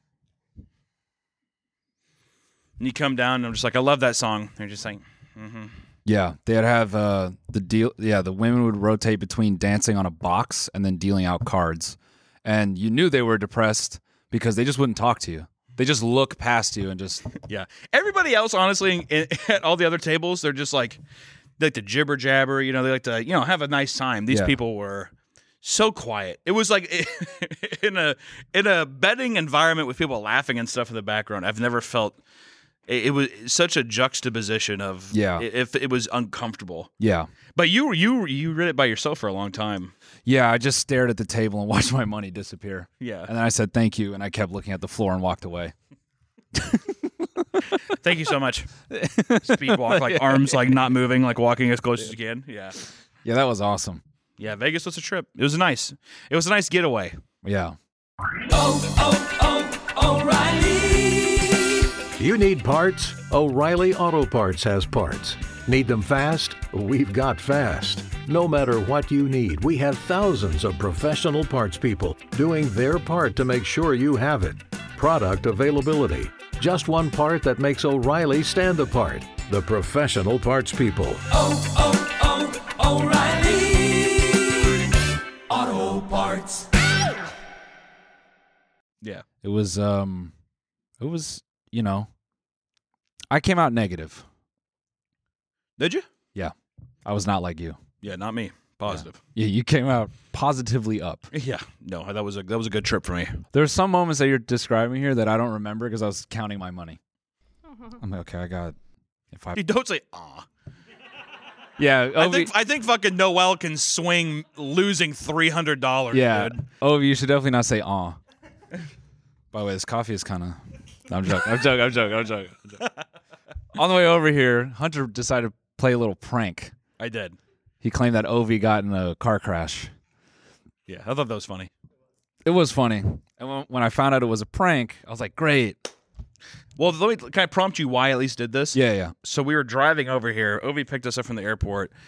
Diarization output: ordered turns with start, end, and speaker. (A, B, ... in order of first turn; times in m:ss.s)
0:02.8-0:05.8 A
0:06.1-0:17.3 B
0:17.5-0:21.0 A
0:21.6-0:25.1 A
0:24.3-0:24.6 B
0:25.6-0:32.2 A
0:32.9-0:36.9 A
0:35.1-0:35.4 B
0:37.0-0:37.3 B
0:37.6-0:39.9 A
0:40.3-0:45.7 B
0:43.0-0:43.3 A
0:46.6-0:46.9 B
0:47.9-0:48.7 A
0:48.9-0:50.8 B
0:49.4-0:52.8 A
0:53.2-0:54.0 B
0:54.4-0:57.2 A
0:57.4-0:57.8 B
0:58.7-1:00.6 A
1:02.2-1:21.4 C
1:21.6-1:22.4 A
1:25.7-1:26.1 C
1:29.4-1:30.3 B
1:31.0-1:32.1 B
1:33.3-1:34.2 B
1:35.8-1:36.0 A
1:37.0-1:37.8 B
1:38.0-1:39.2 A
1:38.9-1:41.3 B
1:41.3-1:43.4 A
1:43.5-1:47.0 B
1:48.0-1:48.8 B
1:49.3-1:49.6 B
1:49.6-1:50.5 A
1:51.8-1:52.5 B
1:52.2-1:56.6 A
1:56.1-1:58.2 B
1:59.5-2:02.8 B
2:03.8-2:06.7 B
2:07.0-2:07.4 A
2:07.8-2:09.9 B
2:10.9-2:11.7 A
2:12.4-2:15.9 B
2:16.8-2:21.9 A
2:18.7-2:19.1 B